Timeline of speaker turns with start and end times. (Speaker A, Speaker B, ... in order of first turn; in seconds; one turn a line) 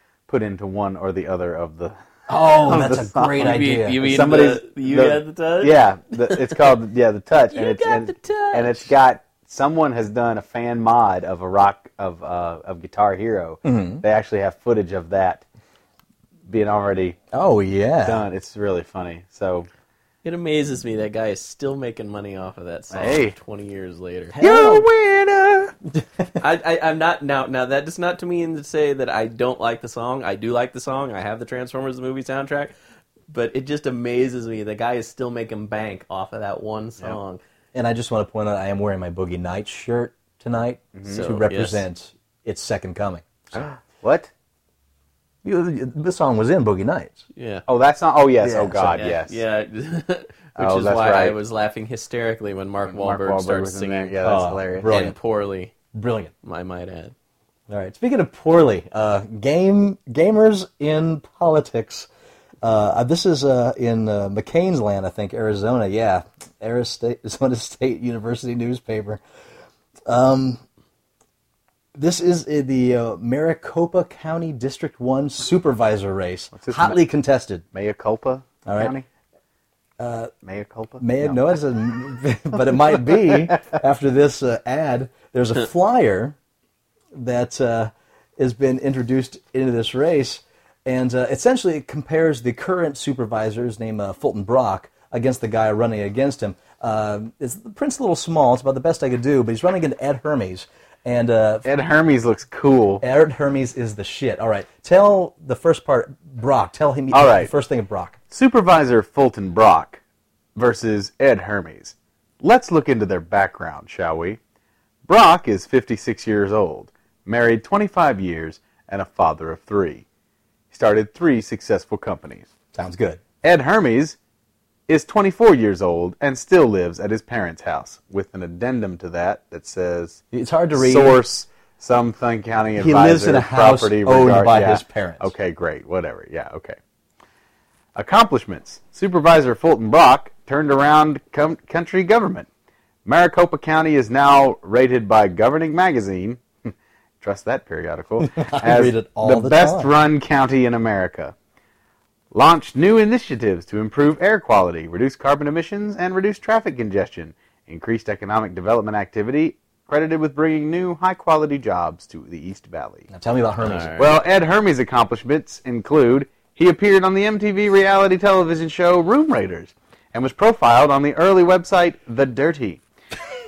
Speaker A: 0.3-1.9
Speaker B: 2.3-4.0
Speaker A: 2.5-15.4
Speaker C: 3.4-6.6
Speaker C: 7.5-8.9
Speaker B: 13.6-14.0
Speaker A: 16.5-17.2
Speaker B: 17.3-18.2
Speaker A: 18.0-19.7
Speaker C: 20.2-24.4
Speaker A: 22.9-23.3
Speaker B: 24.3-24.8
Speaker A: 24.4-25.7
Speaker C: 26.4-32.7
Speaker C: 33.3-37.4
Speaker B: 37.7-43.6
Speaker A: 40.9-41.2
Speaker C: 41.0-41.8
Speaker A: 43.5-44.3
Speaker B: 45.4-47.2
Speaker C: 47.4-47.6
Speaker A: 47.7-49.4
Speaker B: 48.4-49.0
Speaker C: 49.0-54.2
Speaker A: 50.6-51.4
Speaker A: 52.9-54.9
Speaker B: 54.2-55.1
Speaker C: 54.8-55.7
Speaker B: 55.9-56.3
Speaker C: 56.4-57.1
Speaker B: 57.7-62.1
Speaker B: 62.6-69.2
Speaker B: 70.0-70.6
Speaker B: 71.9-77.6
Speaker A: 76.5-77.0
Speaker A: 77.7-79.0
Speaker B: 78.6-78.9
Speaker B: 80.0-80.3
Speaker A: 80.4-81.5
Speaker B: 81.0-86.3
Speaker B: 87.1-101.7
Speaker A: 101.6-103.0
Speaker B: 103.0-108.2
Speaker A: 107.1-107.5
Speaker A: 108.3-110.0
Speaker A: 110.5-114.4
Speaker A: 115.1-120.0
Speaker A: 120.7-122.5
Speaker B: 122.7-123.2
Speaker A: 123.4-124.2
Speaker A: 124.9-130.2
Speaker B: 130.3-131.2
Speaker A: 130.7-136.8
Speaker B: 132.8-135.3
Speaker A: 137.9-142.5
Speaker A: 143.0-151.3
Speaker B: 148.2-149.9
Speaker A: 152.3-163.1
Speaker B: 163.1-164.0
Speaker C: 163.6-164.1
Speaker A: 164.0-172.8